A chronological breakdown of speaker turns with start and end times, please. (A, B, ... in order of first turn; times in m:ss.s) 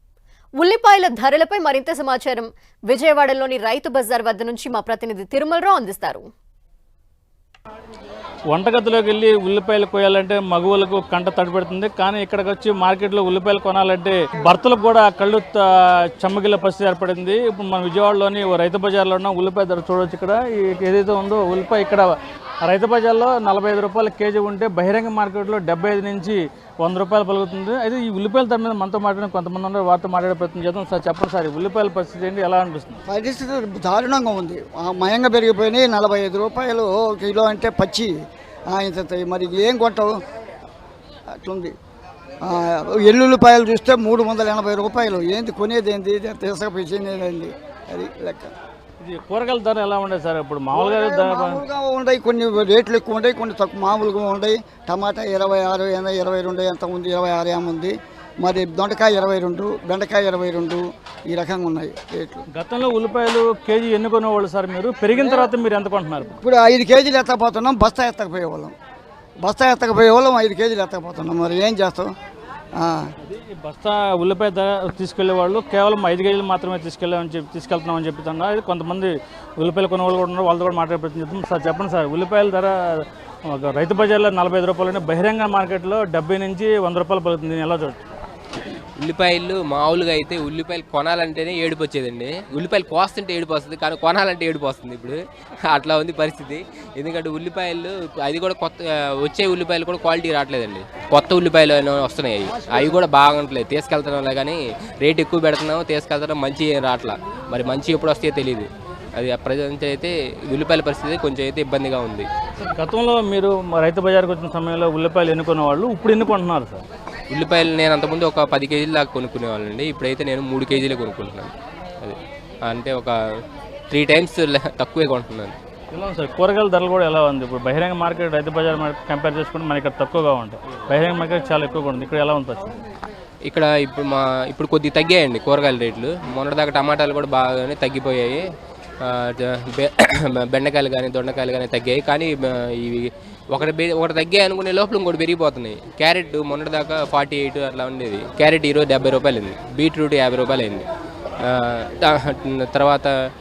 0:00.6-0:06.2 A
0:08.5-0:33.0 B
0:33.1-0:38.1 C
0:38.7-0:40.2 C
0:41.4-0:41.7 C
0:42.4-0:48.5 C
0:49.0-0:51.6 B
0:50.7-1:02.4 C
1:02.5-1:06.4 B
1:05.2-1:05.5 C
1:06.4-1:08.7 C
1:09.4-1:12.1 C
1:12.8-1:13.1 C
1:13.2-1:28.0 B
1:29.0-1:35.2 D
1:35.7-1:52.3 D
1:52.6-1:56.8 B
1:57.3-2:03.1 D
2:03.9-2:05.6 D
2:05.9-2:12.8 B
2:13.5-2:18.4 D
2:19.0-2:30.8 D
2:31.4-2:33.1 D